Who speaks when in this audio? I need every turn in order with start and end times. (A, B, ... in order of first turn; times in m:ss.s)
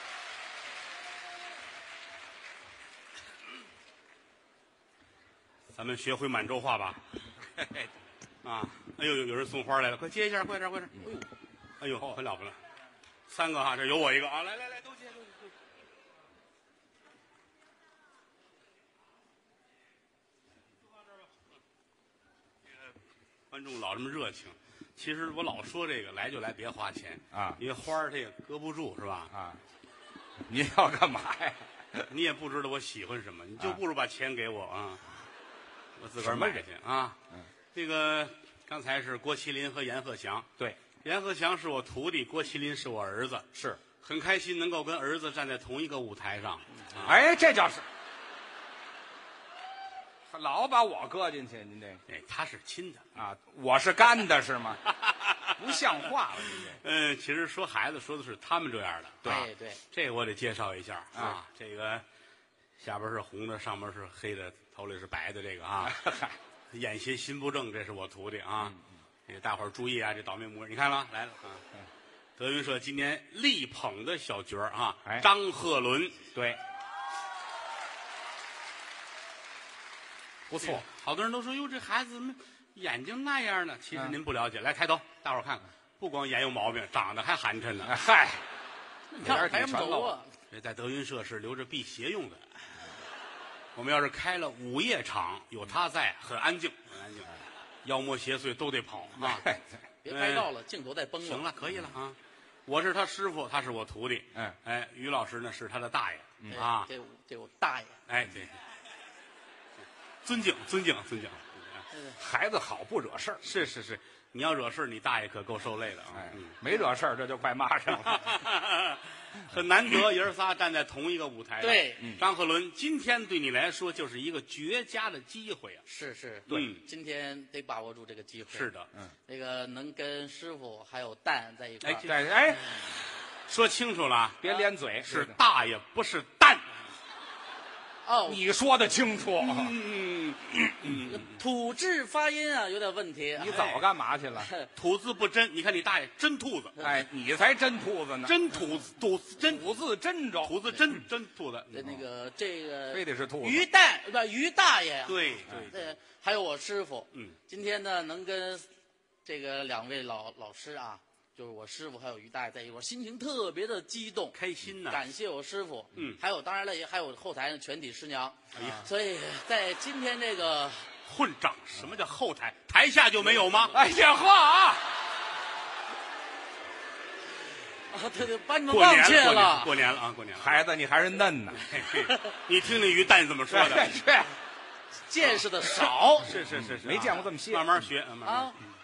0:05.7-0:07.0 A
0:07.6-0:07.9 B
0:08.4-0:11.0 A
0:11.8-0:12.6 A
0:13.3-0:15.3 A
0:23.5-0:29.3 A
0:27.3-0:27.6 B
0:29.3-0:29.6 B
0:30.4-0:32.1 B
0:32.1-0:35.0 A
0:36.0-0:37.2 A
0:36.2-0:36.6 B
0:37.7-0:40.5 A
0:41.0-0:43.5 A
0:43.5-0:43.8 B
0:44.0-0:47.2 A
0:47.0-0:47.8 B
0:50.3-0:52.0 B
0:52.1-0:53.1 A
0:53.1-0:54.8 B
0:55.0-0:55.5 A
0:55.6-0:56.8 B
0:56.6-1:02.0 A
0:59.2-0:59.8 C
1:01.1-1:01.4 B
1:02.8-1:06.0 A
1:05.8-1:06.4 B
1:06.7-1:08.8 A
1:09.3-1:11.6 A
1:12.4-1:16.3 A
1:16.3-1:16.6 B
1:20.5-1:20.8 B
1:20.6-1:27.9 A
1:27.8-1:28.4 B
1:29.1-1:30.3 C
1:29.2-1:30.1 B
1:30.5-1:32.4 A
1:33.7-1:37.3 A
1:37.8-1:39.5 A
1:39.2-1:39.6 B
1:40.0-1:41.5 C
1:40.1-1:40.5 A
1:41.2-1:42.2 A
1:42.7-1:46.9 A
1:46.5-1:48.0 C
1:48.1-1:48.5 A
1:50.2-1:51.8 A
1:52.2-1:53.4 B
1:53.4-1:56.5 A
1:56.1-1:58.3 B
1:57.9-2:05.8 A
2:01.6-2:02.0 C
2:05.9-2:08.7 C
2:06.5-2:06.8 A
2:08.5-2:08.9 A
2:09.3-2:12.1 C
2:11.8-2:12.1 A
2:12.0-2:12.6 B
2:13.5-2:14.5 A
2:14.4-2:15.4 B
2:15.0-2:16.6 A
2:18.0-2:18.4 C
2:18.2-2:19.7 B
2:19.4-2:21.3 A
2:21.1-2:23.5 C
2:23.4-2:24.5 B
2:23.5-2:23.8 A
2:24.4-2:24.7 C
2:24.8-2:26.7 A
2:26.8-2:28.5 B
2:28.2-2:29.6 A
2:29.4-2:30.8 B
2:30.4-2:31.9 A
2:31.7-2:38.6 C
2:32.9-2:33.6 B
2:35.0-2:35.9 A
2:39.2-2:44.3 C
2:44.3-2:45.0 A
2:44.9-2:50.9 C
2:48.5-2:48.9 A
2:51.0-2:53.7 A
2:53.7-2:54.8 B
2:57.9-2:59.7 C
2:58.7-3:00.6 A
3:00.4-3:01.6 B
3:01.6-3:03.9 A
3:03.5-3:04.3 B
3:05.1-3:06.4 C
3:06.2-3:08.6 A
3:06.5-3:07.8 B
3:08.2-3:08.6 C